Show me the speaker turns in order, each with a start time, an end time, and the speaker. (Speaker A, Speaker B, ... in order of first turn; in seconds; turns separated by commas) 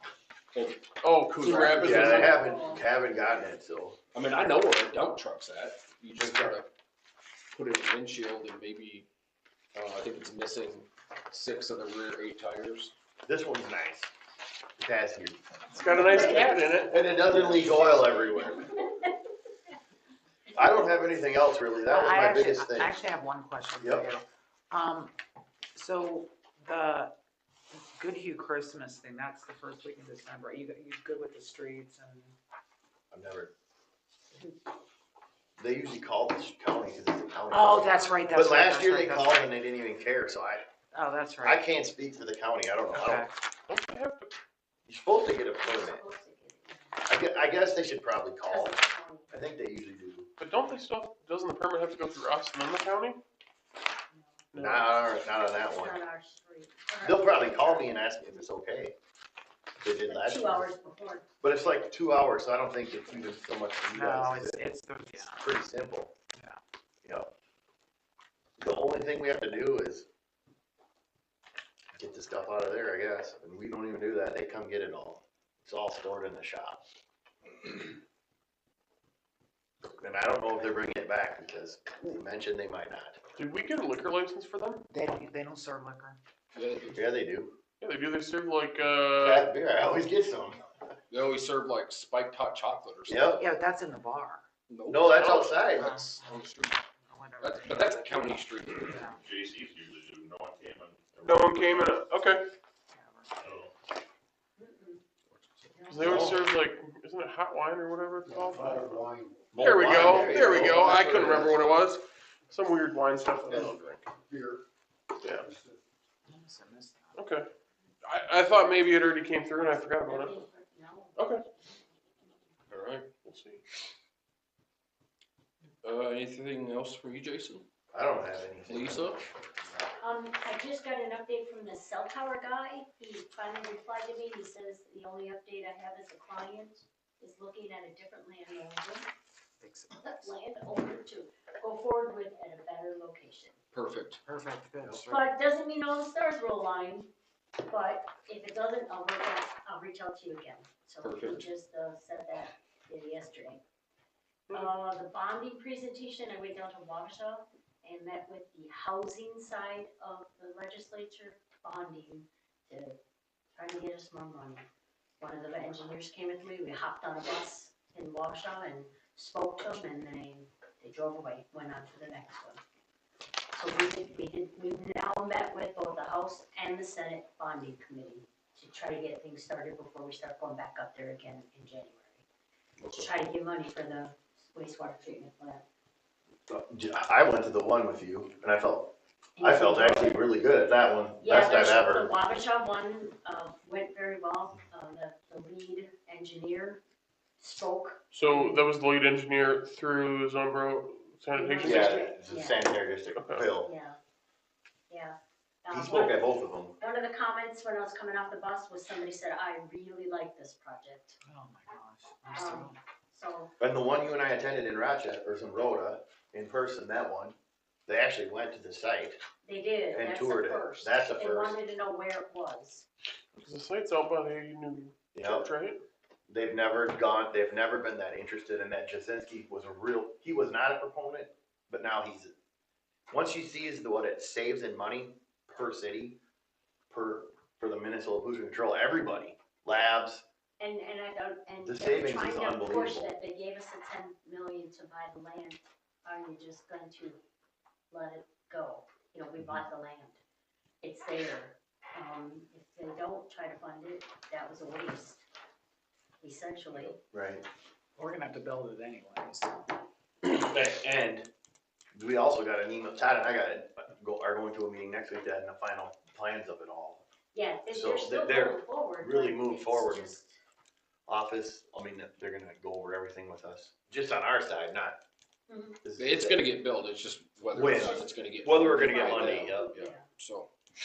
Speaker A: 0.5-2.3, Speaker B: 1.0-2.4, Speaker C: 1.8-4.0, Speaker D: 1.8-2.8, Speaker A: 4.1-6.7, Speaker C: 6.2-6.5, Speaker A: 7.5-9.1, Speaker A: 9.8-12.9, Speaker C: 13.3-14.1, Speaker C: 14.8-15.4, Speaker B: 15.7-17.0, Speaker E: 15.8-16.2, Speaker C: 16.1-18.7, Speaker D: 16.1-16.4, Speaker E: 17.6-17.9, Speaker D: 18.4-19.1, Speaker C: 20.6-23.0, Speaker E: 21.9-25.1, Speaker C: 23.8-24.1, Speaker E: 25.8-27.1, Speaker E: 27.7-32.4, Speaker C: 33.1-33.5, Speaker C: 35.6-40.7, Speaker E: 37.5-39.5, Speaker E: 40.9-41.6, Speaker C: 41.4-43.3, Speaker E: 42.9-43.4, Speaker B: 43.7-44.4, Speaker C: 44.9-46.0, Speaker D: 45.6-47.0, Speaker C: 47.1-50.3, Speaker D: 48.5-49.4, Speaker B: 50.4-53.2, Speaker D: 54.1-54.4, Speaker B: 54.5-54.9, Speaker C: 54.6-56.0, Speaker D: 55.6-58.0, Speaker C: 57.0-58.9, Speaker C: 59.8-60.7, Speaker D: 60.0-61.3, Speaker C: 61.4-66.1, Speaker E: 63.9-65.5, Speaker E: 66.3-66.6, Speaker C: 67.0-67.3, Speaker C: 68.6-70.1, Speaker C: 71.9-76.8, Speaker C: 79.8-83.2, Speaker B: 83.4-84.8, Speaker E: 84.9-86.2, Speaker A: 86.5-87.0, Speaker C: 87.0-87.5, Speaker B: 87.8-89.5, Speaker C: 89.2-90.6, Speaker A: 91.1-93.4, Speaker C: 93.1-93.5, Speaker E: 93.4-94.5, Speaker A: 94.7-95.7, Speaker C: 94.9-96.0, Speaker E: 95.8-98.2, Speaker A: 96.2-96.7, Speaker A: 97.4-99.2, Speaker E: 98.8-99.2, Speaker F: 99.2-102.0, Speaker B: 101.2-102.4, Speaker E: 102.9-103.3, Speaker F: 103.4-103.7, Speaker D: 104.6-105.0, Speaker A: 105.3-106.0, Speaker D: 105.8-106.3, Speaker B: 105.9-109.1, Speaker C: 106.0-106.4, Speaker F: 108.3-109.3, Speaker C: 109.5-111.5, Speaker B: 109.6-114.1, Speaker A: 110.0-111.6, Speaker E: 116.3-117.2, Speaker B: 117.2-117.5, Speaker B: 118.0-120.4, Speaker D: 119.6-122.5, Speaker B: 121.2-121.4, Speaker A: 122.7-123.1, Speaker B: 123.2-123.6, Speaker A: 125.8-127.7, Speaker C: 127.9-129.3, Speaker A: 128.7-129.2, Speaker D: 130.0-139.1, Speaker E: 139.6-140.3, Speaker D: 140.1-143.6, Speaker A: 143.7-144.2, Speaker E: 144.3-145.3, Speaker D: 145.1-147.1, Speaker D: 147.6-153.6, Speaker A: 151.0-151.5, Speaker D: 154.5-163.0, Speaker D: 163.6-164.7, Speaker D: 165.2-172.6, Speaker D: 173.5-182.2, Speaker A: 182.8-183.1, Speaker D: 182.9-185.6, Speaker C: 186.5-188.9, Speaker D: 189.4-190.2, Speaker C: 189.4-192.1, Speaker D: 191.2-196.8, Speaker D: 197.4-198.6, Speaker B: 198.1-202.1, Speaker D: 201.3-202.7, Speaker C: 201.6-203.7, Speaker B: 203.2-203.5, Speaker D: 203.6-204.0, Speaker D: 204.9-211.2, Speaker C: 205.7-206.8, Speaker E: 211.2-212.8, Speaker D: 212.3-213.5, Speaker C: 213.6-217.4, Speaker C: 217.9-219.2, Speaker D: 219.4-222.9, Speaker C: 219.9-221.6, Speaker B: 223.3-225.8, Speaker C: 225.1-225.5, Speaker C: 226.3-232.3, Speaker C: 233.1-236.2, Speaker C: 236.9-240.2, Speaker D: 240.6-247.2, Speaker C: 241.6-243.1, Speaker D: 247.9-250.2, Speaker D: 250.8-255.2, Speaker D: 256.2-257.0, Speaker C: 257.1-257.4, Speaker E: 258.0-259.7, Speaker C: 260.2-261.3, Speaker C: 261.9-267.0, Speaker D: 267.3-270.4, Speaker C: 267.7-270.1, Speaker C: 271.1-275.0, Speaker D: 275.5-275.8, Speaker C: 275.8-276.4, Speaker A: 276.0-280.5, Speaker C: 277.5-279.8, Speaker D: 277.8-280.1